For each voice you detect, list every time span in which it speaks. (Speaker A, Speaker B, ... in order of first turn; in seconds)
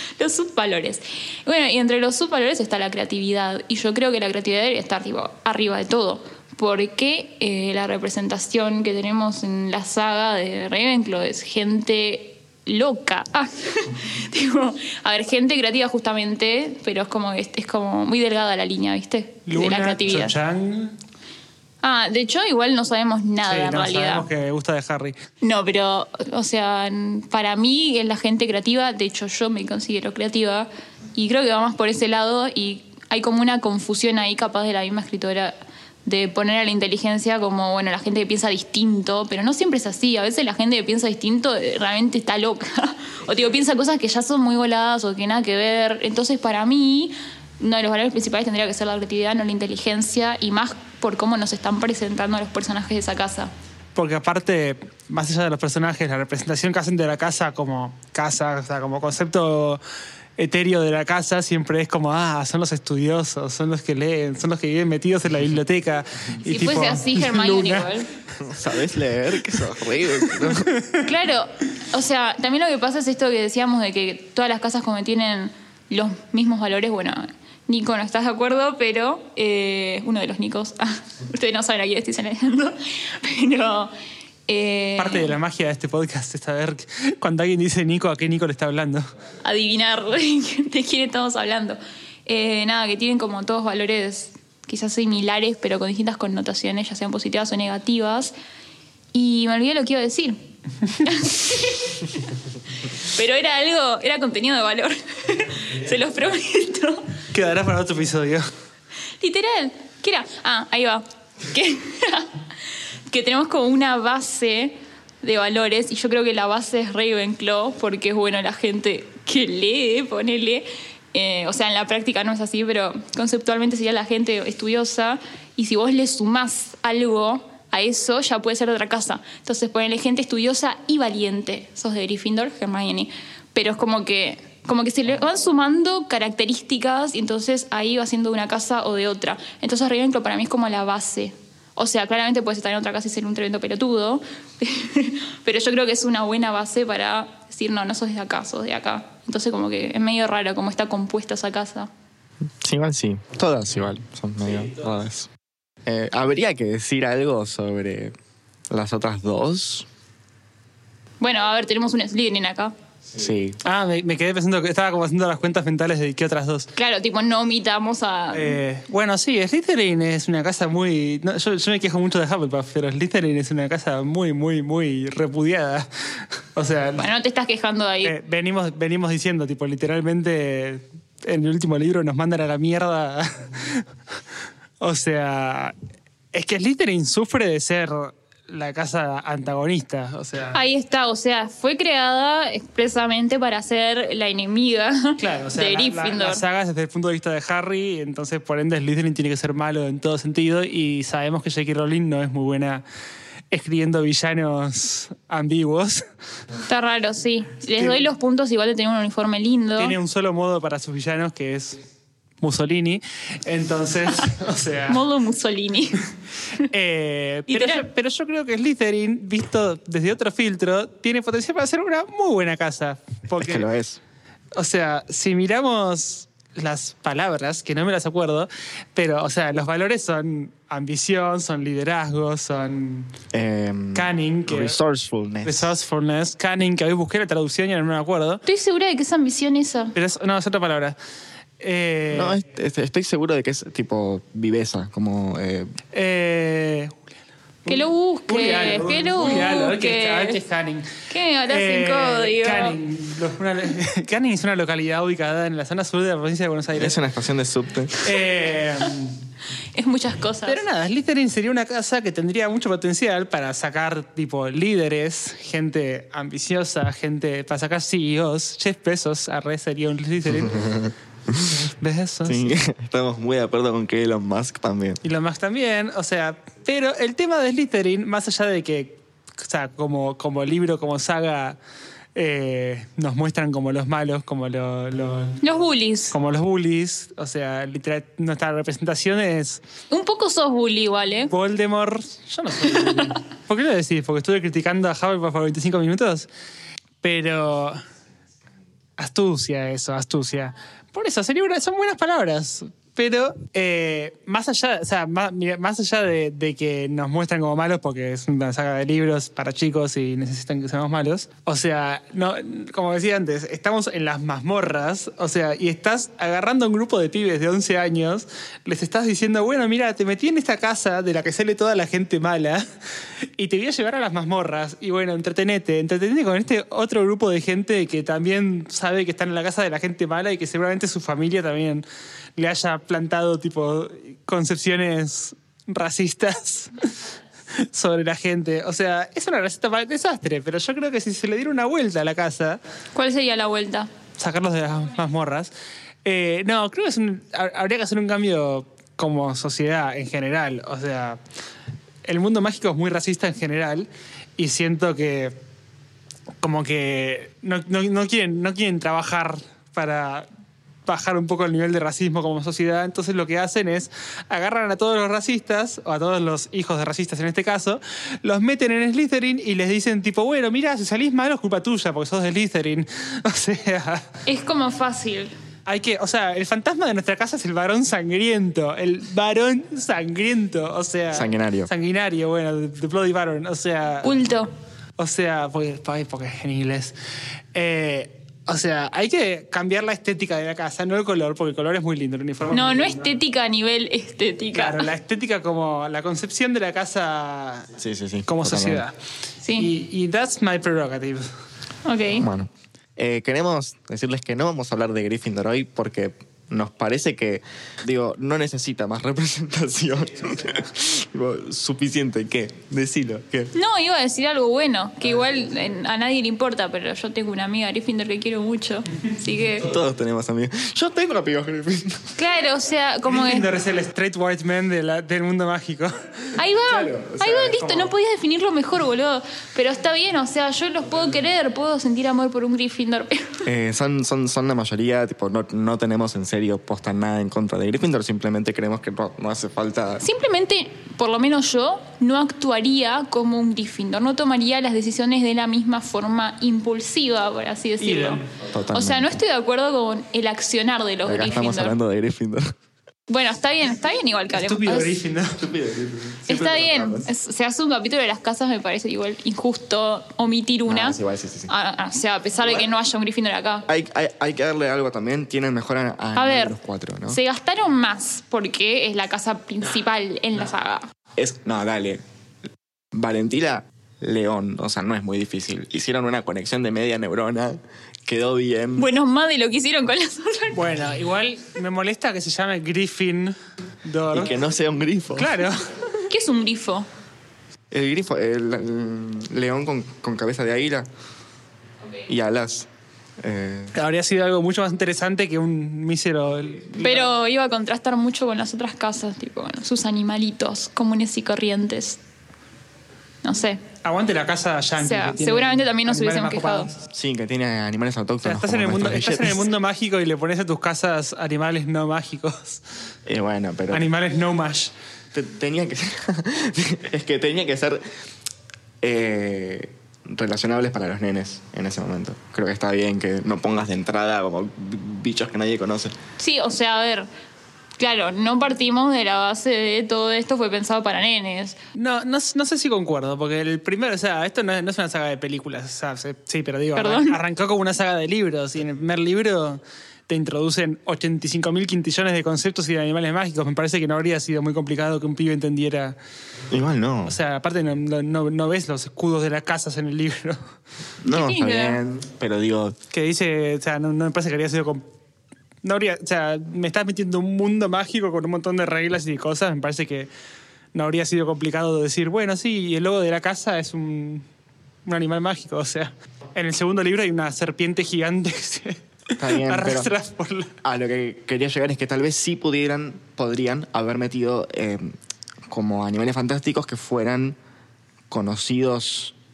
Speaker A: 0.2-20.4, 21.8-24.3, 25.4-53.5, 66.5-68.1, 71.0-83.9, 84.5-85.3, 89.4-98.3, 99.1-100.4, 101.0-102.3, 102.8-107.2, 109.2-112.3, 113.1-151.9, 161.2-162.7, 166.8-168.6, 177.0-178.1, 190.5-196.4, 206.7-209.9, 214.9-216.0, 217.5-217.9, 238.4-239.9, 247.7-250.4, 251.1-252.8, 259.7-260.6, 285.4-286.1, 289.9-291.3, 342.9-343.9, 374.3-375.3, 384.0-384.5, 392.5-394.9, 399.4-399.7, 401.9-402.3, 413.5-419.7, 422.2-423.5, 426.4-433.5, 440.0-448.2, 448.7-451.8, 453.1-455.0, 456.3-463.7, 466.2-466.6, 467.1-470.9, 478.8-480.6, 486.1-486.9, 496.8-502.0, 503.2-503.6, 504.8-506.7, 526.2-527.1, 527.8-531.6, 536.8-537.2, 551.1-551.8
Speaker B: 19.5-21.0, 23.5-25.2, 54.0-59.8, 60.4-67.9, 70.2-71.0, 85.0-89.1, 107.3-108.5, 163.6-166.7, 168.3-175.9, 176.6-177.1, 178.0-183.9, 184.8-185.7, 186.3-190.6, 195.2-202.8, 203.5-206.1, 209.8-211.8, 212.4-215.1, 216.6-223.7, 224.6-233.1, 233.9-234.8, 235.4-238.4, 239.9-241.0, 241.6-242.4, 245.9-247.0, 247.7-250.9, 251.5-257.0, 258.0-259.1, 260.5-270.8, 271.5-272.6, 275.0-281.6, 282.1-285.4, 286.1-289.6, 291.3-296.3, 297.0-297.8, 299.0-322.7, 323.4-331.9, 332.4-336.9, 337.5-342.6, 344.2-345.5, 346.1-351.2, 352.1-355.4, 356.4-360.3, 360.9-374.1, 375.7-384.1, 385.0-386.9, 387.5-393.1, 394.5-397.7, 398.3-398.9, 399.6-401.3, 423.1-426.4, 427.6-427.9, 447.8-448.3, 454.3-455.4, 480.6-484.4, 485.2-485.7, 493.8-497.1, 503.8-506.8, 508.2-512.6, 513.7-514.7, 531.7-546.0, 547.1-550.4, 552.9-554.8, 555.6-560.1, 560.7-564.2, 564.9-570.5
Speaker C: 68.4-70.7, 152.6-155.3, 155.9-158.1, 158.7-159.9, 163.1-163.6, 223.3-224.0, 233.3-235.8, 242.1-245.7, 256.7-258.1, 270.4-271.6, 272.2-275.0, 381.1-381.7, 397.8-398.8, 402.2-413.5, 419.6-422.1, 426.7-427.6, 433.4-440.0, 448.4-449.2, 451.1-452.5, 455.4-457.1, 460.7-461.5, 463.7-467.2, 471.2-472.0, 472.9-478.9, 484.1-485.5, 487.7-490.9, 492.1-492.7, 493.2-493.8, 506.8-509.5, 513.1-513.9, 515.1-517.8, 518.8-526.0, 546.5-547.2, 551.0-552.8, 569.2-569.9, 570.6-575.0, 575.5-577.4, 578.1-579.2